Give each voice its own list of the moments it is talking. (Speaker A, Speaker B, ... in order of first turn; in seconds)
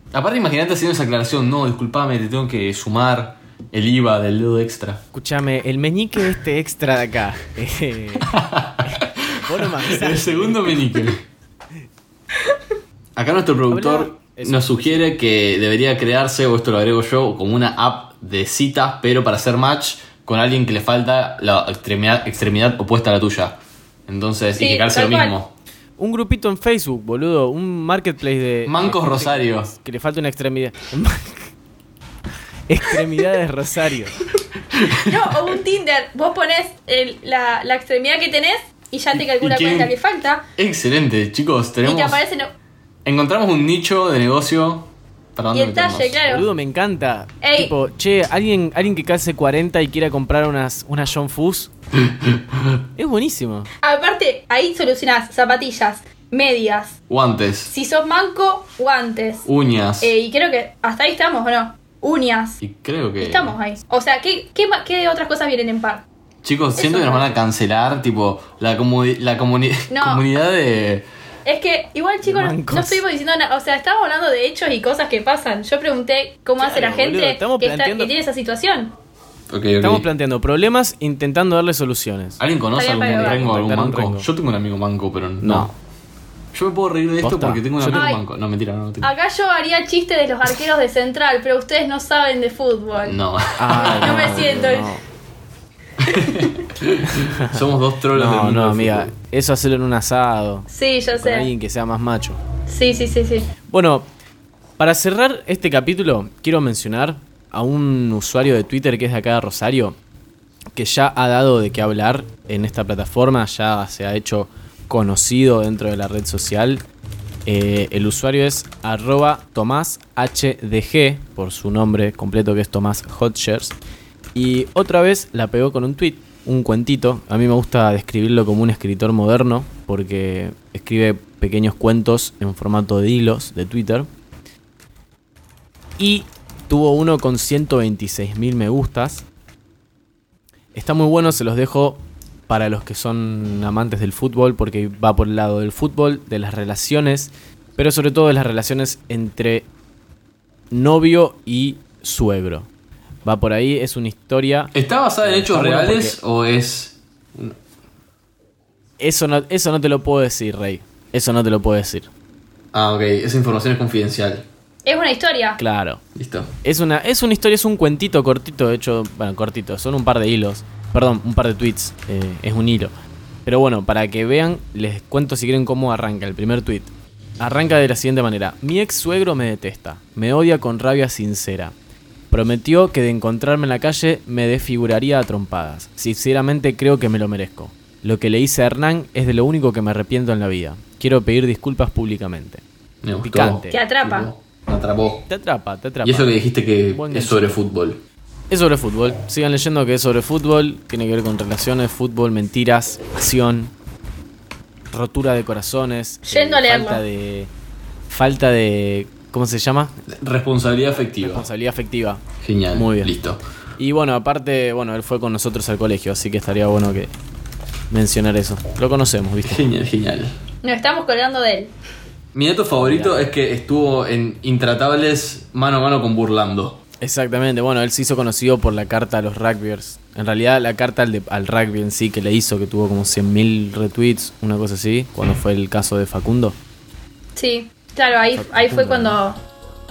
Speaker A: 0.1-5.0, 8.2-11.2, 13.2-25.5, 28.6-29.7, 34.7-35.4, 39.1-39.9, 40.6-42.2, 43.0-46.4, 52.0-52.8, 57.1-57.7, 59.5-60.1, 62.6-63.5, 66.4-71.0, 79.5-80.1, 82.4-85.7, 86.5-89.1, 93.0-94.5, 96.0-99.1, 154.7-157.6, 162.7-164.4, 166.1-166.5, 193.0-195.2, 196.0-198.0, 210.1-211.5, 212.4-213.4, 219.4-220.3, 222.3-226.8
Speaker B: 5.1-8.3, 8.8-10.9, 13.7-15.1, 26.0-31.5, 32.7-34.2, 46.3-51.7, 53.0-53.7, 72.2-73.0, 76.6-78.1, 79.8-82.4, 83.1-84.3, 85.4-85.7, 87.2-88.1, 93.6-95.0, 97.1-97.6, 98.1-102.4, 103.7-104.1, 104.8-110.0, 110.7-116.8, 117.5-123.8, 124.3-134.1, 136.0-139.2, 140.7-149.7, 150.7-152.7, 153.2-156.2, 159.0-162.1, 165.6-166.0, 166.6-172.9, 173.4-181.7, 182.3-192.6, 193.2-193.8, 195.3-196.3, 196.9-197.6, 198.5-203.7, 204.9-207.5, 208.1-209.9, 211.2-213.1, 213.8-217.1, 217.9-219.6, 222.8-223.2, 227.0-236.6, 238.3-239.2
Speaker C: 24.6-25.3, 35.0-40.4, 41.8-42.5, 45.5-46.5, 47.4-47.7, 53.8-57.0, 57.7-59.5, 60.0-62.6, 63.2-66.0, 66.7-67.3, 69.9-70.2, 71.5-78.9, 82.7-83.4, 87.9-88.2, 89.0-93.2, 93.7-94.9, 96.1-96.4, 100.7-101.5, 102.7-103.5, 164.8-165.6, 193.7-194.3, 206.2-207.0, 220.6-221.7, 237.3-239.4